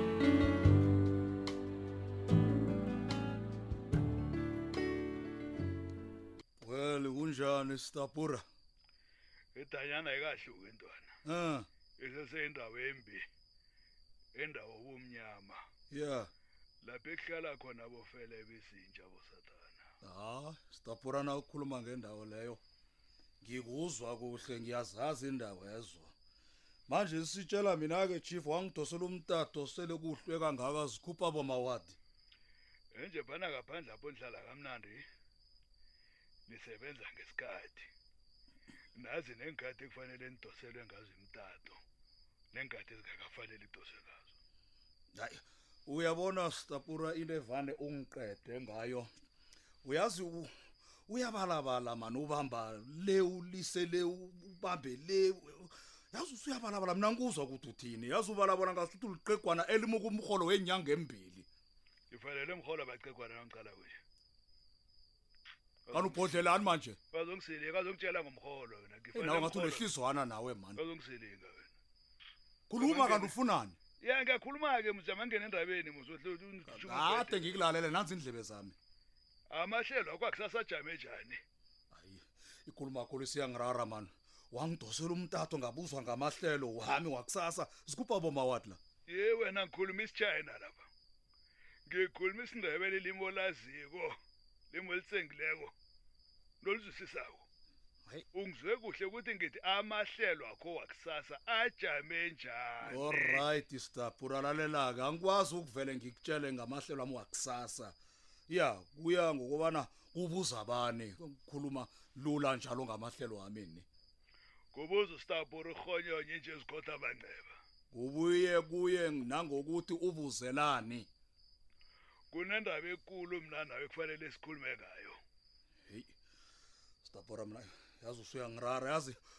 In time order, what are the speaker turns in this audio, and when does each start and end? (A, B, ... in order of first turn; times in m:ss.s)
0:06.6-0:08.4 A
0:09.6-0:11.1 B
0:11.2-0:11.7 A
0:12.0-0:13.2 B
0:14.4-0:15.6 B
0:15.9-0:16.3 A
0:16.8-0:19.8 B
0:20.0-0:22.6 A
0:23.4-0:26.1 A
0:26.9-0:32.0 A
0:33.0-0:35.0 B
0:36.5-0:37.9 B
0:39.0-0:41.8 B
0:42.5-0:44.2 B
0:45.2-0:49.1 A
0:49.8-0:50.5 A
0:51.1-1:01.4 A
1:02.1-1:04.0 B
1:05.9-1:06.4 B
1:05.9-1:07.0 A
1:07.1-1:09.8 B
1:09.1-1:10.8 A
1:10.8-1:11.7 B
1:12.7-1:13.8 A
1:12.8-1:13.3 B
1:14.0-1:17.6 B
1:16.7-1:18.8 A
1:19.5-1:21.4 B
1:21.9-1:28.8 A
1:29.1-1:30.8 B
1:31.9-1:34.2 B
1:34.7-1:35.7 B
1:36.6-1:37.4 B
1:38.3-1:43.4 B
1:42.8-1:47.9 A
1:48.5-1:53.8 A
1:54.7-1:57.5 B
1:57.9-2:01.1 A
2:02.3-2:05.2 B
2:05.9-2:06.1 A
2:07.0-2:09.2 A